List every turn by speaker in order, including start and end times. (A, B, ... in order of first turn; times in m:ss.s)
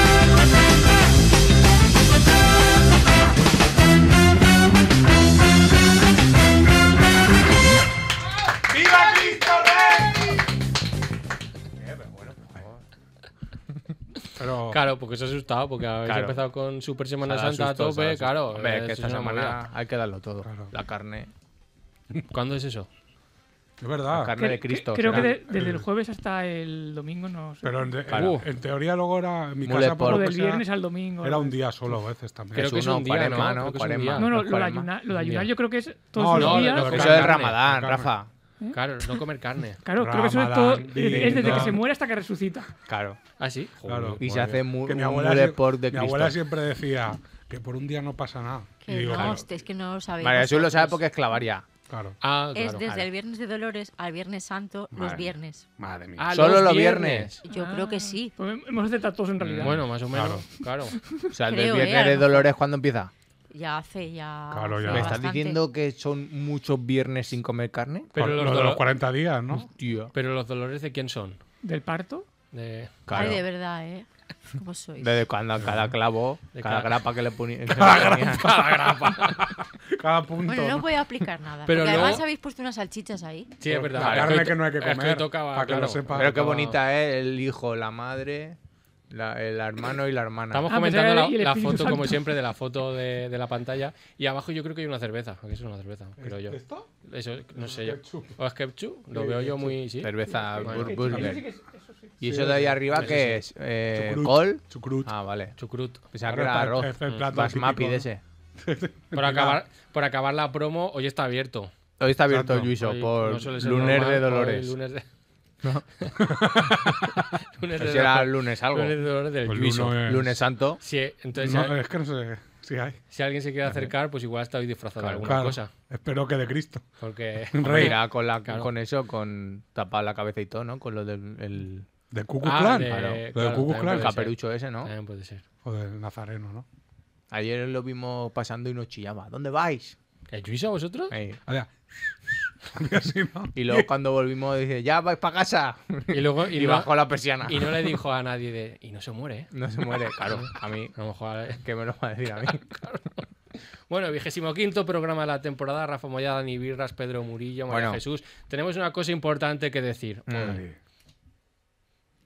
0:08.6-0:10.4 A
0:11.8-0:12.3 A
0:14.4-0:14.8 A
0:14.7-0:19.6 B
0:16.0-0:16.4 C
0:17.2-0:21.3 C
0:20.4-0:20.7 A
0:22.3-0:22.9 B
0:23.8-0:24.3 A
0:24.1-0:25.4 C
0:24.4-0:27.9 D
0:25.1-0:25.9 A
0:27.6-0:30.7 A
0:28.1-0:28.4 C
0:28.1-0:28.5 B
0:29.6-0:30.3 C
0:30.0-0:31.6 D
0:31.2-0:32.7 A
0:32.5-0:34.3 B
0:32.6-0:34.9 C
0:34.1-0:37.0 D
0:35.1-0:35.5 B
0:36.1-0:38.1 A
0:36.3-0:37.5 B
0:36.8-0:38.3 C
0:38.7-0:39.8 B
0:39.8-0:42.7 D
0:40.0-0:41.8 A
0:41.1-0:41.8 C
0:42.9-0:43.2 C
0:43.4-0:44.6 B
0:43.8-0:44.2 A
0:44.2-0:46.4 C
0:44.8-0:49.4 A
0:48.8-0:51.0 E
0:50.2-0:51.6 C
0:51.9-0:52.2 A
0:52.2-0:52.8 B
0:52.5-0:55.6 E
0:54.9-0:56.4 A
0:56.2-0:57.4 B
0:56.3-0:57.3 C
0:57.4-0:58.3 E
0:57.5-0:59.8 D
0:59.4-1:00.4 A
0:59.6-1:01.0 B
1:01.3-1:03.1 C
1:01.4-1:02.4 E
1:03.5-1:05.6 E
1:04.5-1:05.2 A
1:04.9-1:08.1 C
1:08.1-1:08.9 B
1:08.2-1:09.7 A
1:09.7-1:10.1 C
1:10.1-1:11.4 B
1:11.6-1:12.2 D
1:12.5-1:13.4 B
1:13.1-1:13.4 C
1:13.1-1:15.2 E
1:15.0-1:18.6 C
1:15.6-1:15.9 A
1:16.5-1:16.9 B
1:17.7-1:20.9 A
1:18.0-1:19.4 B
1:20.4-1:23.5 E
1:21.6-1:22.2 B
1:23.6-1:26.8 B
1:23.6-1:26.5 A
1:24.0-1:24.5 C
1:26.1-1:28.6 C
1:29.1-1:30.6 C
1:30.5-1:41.1 B
1:30.6-1:32.4 D
1:36.2-1:36.9 A
1:37.6-1:38.4 A
1:39.1-1:39.8 A
1:40.0-1:41.4 C
1:40.3-1:42.1 D
1:41.1-1:41.4 A
1:42.2-1:43.2 A
1:42.2-1:45.6 C
1:43.0-1:43.4 B
1:43.9-1:45.1 A
1:45.6-1:46.0 B
1:46.1-1:48.2 C
1:46.2-1:48.1 A
1:48.6-1:49.6 A
1:49.1-1:51.7 B
1:52.0-1:54.7 C
1:52.3-1:52.8 A
1:52.8-1:55.0 B
1:56.0-2:00.0 B
1:56.2-1:57.3 A
1:57.8-1:59.0 C
1:59.4-2:00.4 A
1:59.9-2:00.8 C
2:00.8-2:01.7 B
2:01.4-2:03.0 A
2:03.1-2:05.7 B
2:05.2-2:06.8 A
2:07.0-2:08.7 B
2:07.5-2:08.0 A
2:07.6-2:11.9 C
2:12.1-2:14.1 A
2:12.4-2:15.4 B
2:12.9-2:14.9 C
2:15.6-2:16.6 A
2:17.3-2:20.0 C
2:20.3-2:21.1 B
2:21.1-2:21.4 C
2:22.3-2:23.9 A
2:23.5-2:28.0 C
2:26.1-2:29.5 B
2:29.5-2:30.9 C
2:30.2-2:31.6 B
2:31.6-2:32.6 C
2:32.5-2:33.2 B
2:33.9-2:40.6 B
2:37.7-2:38.0 C
2:40.3-2:40.6 C
2:40.3-2:40.8 A